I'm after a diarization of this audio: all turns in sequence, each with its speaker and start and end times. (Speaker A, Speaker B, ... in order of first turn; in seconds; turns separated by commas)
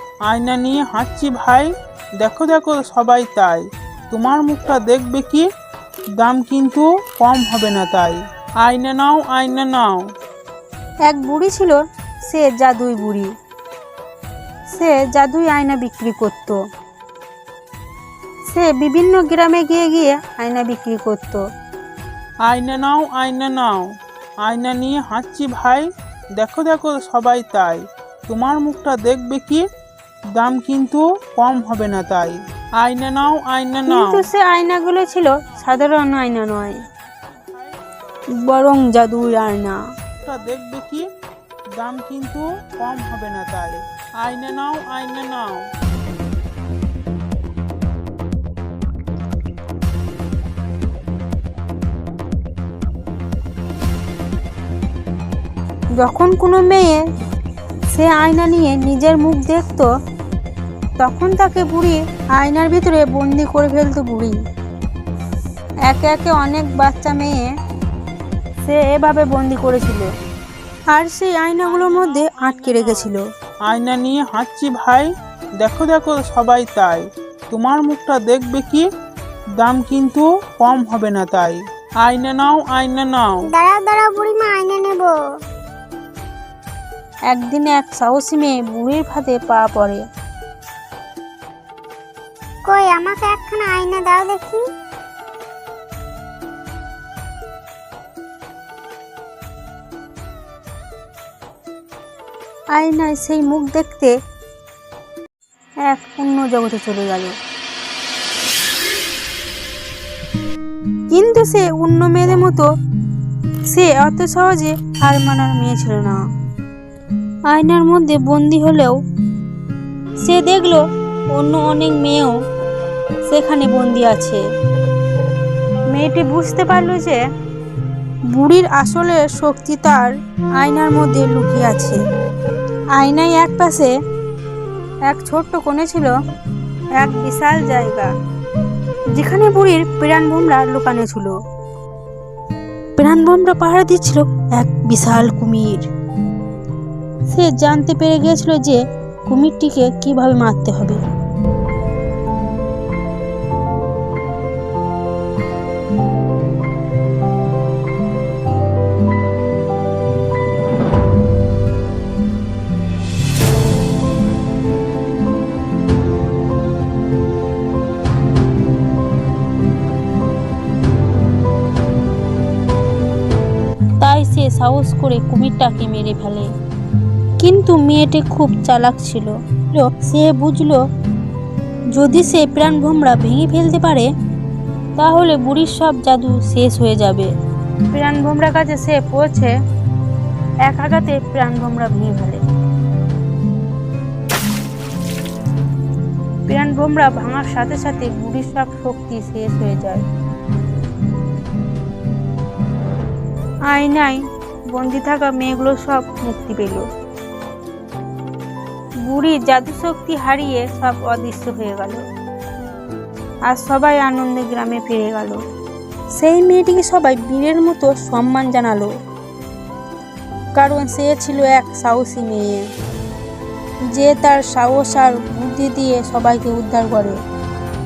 Speaker A: 0.3-5.4, Speaker A: 6.2-10.0, Speaker B: 11.1-11.8, Speaker B: 12.3-13.3, Speaker B: 14.7-16.6, Speaker B: 18.5-21.4, Speaker A: 22.5-23.9, Speaker A: 24.4-29.6, Speaker A: 30.4-34.2, Speaker B: 33.9-36.8, Speaker A: 37.0-37.8, Speaker B: 38.4-39.8, Speaker A: 40.2-41.0, Speaker A: 41.8-45.6, Speaker B: 56.0-57.0, Speaker B: 57.9-59.9, Speaker B: 61.0-64.4, Speaker B: 65.9-67.5, Speaker B: 68.6-70.1, Speaker B: 70.9-73.2, Speaker A: 71.6-73.1, Speaker A: 73.7-75.1, Speaker A: 75.6-78.8, Speaker A: 79.6-83.5, Speaker C: 83.5-85.2, Speaker B: 87.3-90.0, Speaker C: 92.7-94.6, Speaker B: 102.7-104.1, Speaker B: 105.8-107.3, Speaker B: 111.1-112.7, Speaker B: 113.7-116.2, Speaker B: 117.5-118.9, Speaker B: 120.2-120.8, Speaker B: 121.3-122.3, Speaker B: 123.3-124.4, Speaker B: 125.9-127.2, Speaker B: 128.3-132.0, Speaker B: 133.0-133.9, Speaker B: 135.1-136.1, Speaker B: 137.0-138.1, Speaker B: 139.1-141.3, Speaker B: 143.0-145.9, Speaker B: 147.3-151.0, Speaker B: 174.0-176.5, Speaker B: 177.4-180.8, Speaker B: 181.9-184.1, Speaker B: 185.0-187.3, Speaker B: 187.9-189.5, Speaker B: 190.7-192.4, Speaker B: 196.5-200.0, Speaker B: 203.7-206.8, Speaker B: 209.0-212.0, Speaker B: 213.5-215.4, Speaker B: 216.2-218.9, Speaker B: 220.6-222.6, Speaker B: 223.9-227.2